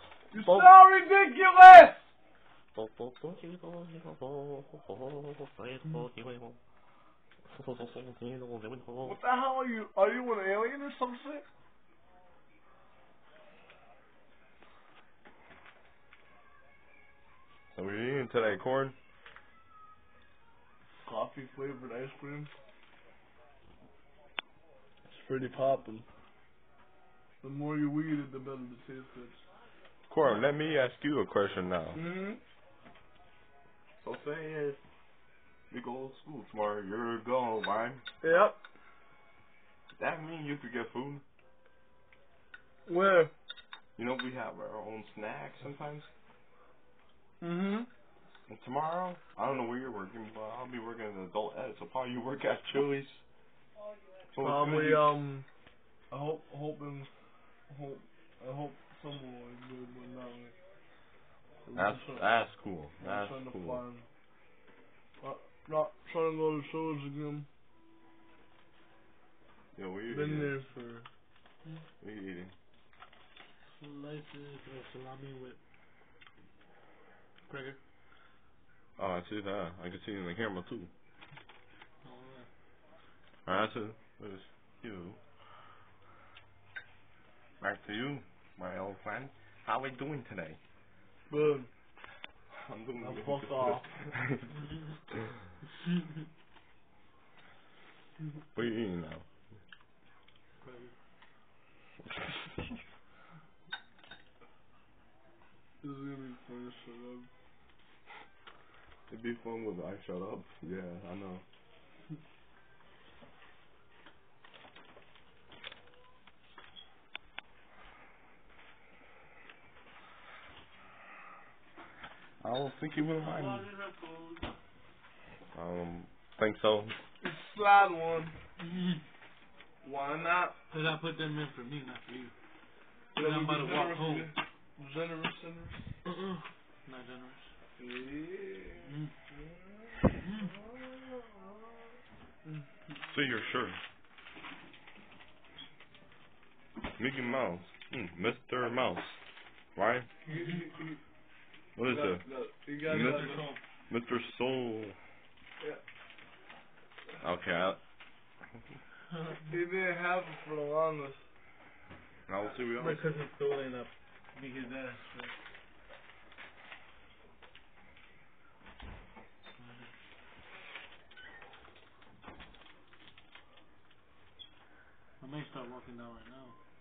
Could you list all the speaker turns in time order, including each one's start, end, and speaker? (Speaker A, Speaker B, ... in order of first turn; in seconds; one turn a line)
Speaker A: 0.3-2.1
Speaker B: 0.4-0.7
Speaker B: 2.7-6.6
Speaker B: 7.5-9.2
Speaker A: 9.0-11.4
Speaker B: 17.7-18.9
Speaker A: 21.0-22.5
Speaker A: 25.1-26.1
Speaker A: 27.4-29.4
Speaker B: 30.1-32.0
Speaker A: 31.9-32.4
Speaker B: 34.0-34.8
Speaker B: 35.7-38.0
Speaker A: 38.2-38.6
Speaker B: 40.0-41.2
Speaker A: 42.9-43.3
Speaker B: 44.0-46.1
Speaker A: 47.4-47.9
Speaker B: 48.5-53.2
Speaker B: 54.3-55.1
Speaker A: 54.4-55.5
Speaker A: 56.1-57.1
Speaker A: 57.7-60.5
Speaker A: 61.6-62.2
Speaker B: 61.7-63.8
Speaker A: 63.0-64.0
Speaker A: 65.2-67.5
Speaker B: 69.7-70.6
Speaker A: 70.1-71.1
Speaker B: 72.0-72.5
Speaker C: 73.8-75.6
Speaker C: 77.5-77.8
Speaker B: 79.0-80.9
Speaker C: 82.0-82.5
Speaker B: 83.5-85.2
Speaker B: 87.6-90.6
Speaker A: 91.3-91.7
Speaker B: 92.5-94.5
Speaker A: 93.0-94.0
Speaker B: 98.5-99.2
Speaker C: 100.6-100.9
Speaker A: 105.8-107.3
Speaker B: 109.1-111.4
Speaker B: 122.4-123.7
Speaker C: 123.2-124.5
Speaker B: 125.5-126.9
Speaker A: 127.2-128.3
Speaker C: 128.6-129.0
Speaker A: 129.8-130.6
Speaker C: 130.7-132.3
Speaker C: 133.1-134.3
Speaker A: 133.2-135.9
Speaker C: 136.1-137.5
Speaker A: 137.8-141.5
Speaker C: 138.8-139.1
Speaker C: 140.1-140.5
Speaker B: 143.1-143.8
Speaker B: 146.9-149.2
Speaker B: 149.8-150.1
Speaker A: 150.2-151.0
Speaker B: 151.8-152.2
Speaker A: 151.8-153.4
Speaker C: 152.8-153.6
Speaker B: 152.9-154.9
Speaker B: 157.2-157.8
Speaker A: 159.4-161.2
Speaker B: 162.3-163.1
Speaker C: 162.8-165.3
Speaker C: 169.6-169.9
Speaker C: 175.2-176.6